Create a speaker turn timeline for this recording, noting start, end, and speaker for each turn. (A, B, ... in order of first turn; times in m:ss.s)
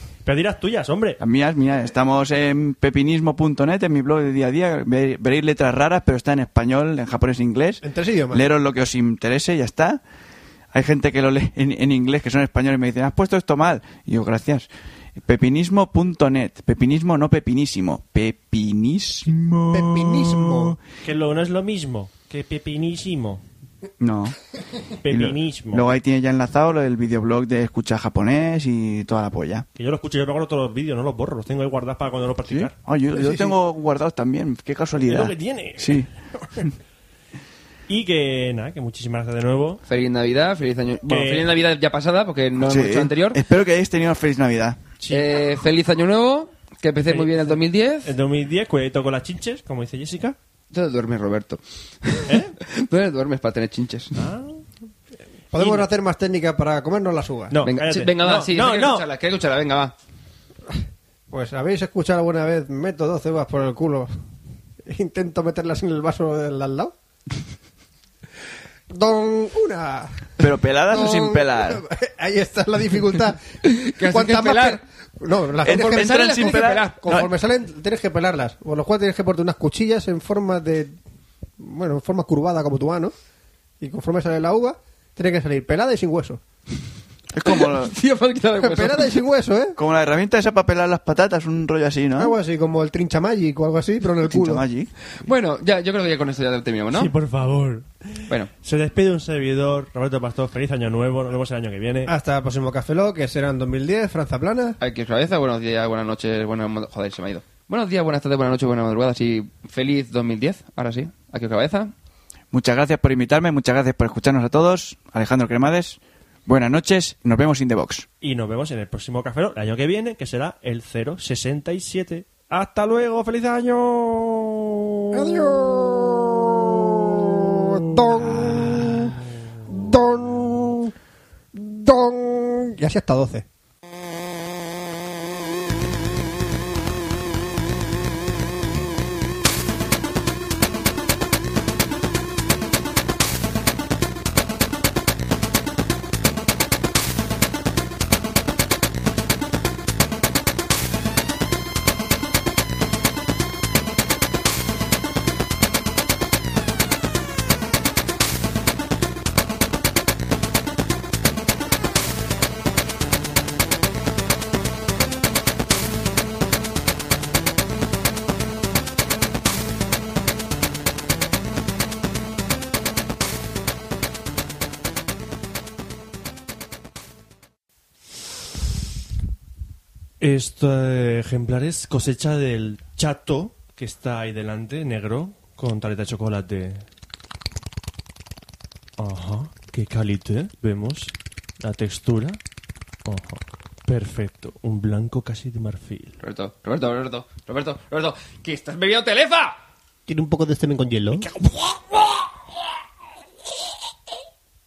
0:00.2-0:01.2 A
0:01.2-0:10.0 B
0:07.8-0:08.4 C
0:10.7-0:14.7 B
0:15.2-0:20.7 B
0:19.7-0:20.8 C
0:21.0-0:23.4 A
0:24.0-0:24.4 B
0:25.0-0:25.9 A
0:25.1-0:29.6 B
0:29.8-0:32.7 A
0:32.4-0:36.1 B
0:35.0-0:36.0 A
0:37.9-0:39.8 A
0:39.9-0:43.4 D
0:41.1-0:41.5 A
0:42.6-0:44.8 B
0:45.0-0:45.3 A
0:45.1-0:48.1 D
0:47.1-0:50.4 A
0:50.7-0:54.2 D
0:52.3-0:52.5 A
0:54.2-0:54.6 A
0:55.5-0:57.6 C
0:57.5-0:59.0 A
0:57.6-0:59.9 D
1:01.3-1:04.1 C
1:04.8-1:06.9 C
1:08.9-1:21.0 C
1:10.4-1:11.8 B
1:13.6-1:14.8 D
1:15.6-1:17.3 B
1:15.7-1:17.1 D
1:21.6-1:23.1 C
1:23.8-1:26.4 C
1:27.3-1:27.9 B
1:27.5-1:29.2 D
1:28.6-1:29.8 C
1:29.8-1:32.3 B
1:32.2-1:34.6 C
1:34.3-1:34.9 B
1:35.2-1:37.1 D
1:36.9-1:37.9 A
1:38.6-1:42.1 A
1:42.0-1:44.8 C
1:44.8-1:51.9 D
1:52.5-1:58.0 B
1:58.2-2:04.8 A
2:05.1-2:09.2 C
2:09.7-2:10.9 C
2:11.5-2:13.5 C
3:00.2-3:06.8 A
3:09.0-3:12.4 A
3:13.0-3:16.2 A
3:16.2-3:19.6 D
3:20.1-3:21.3 C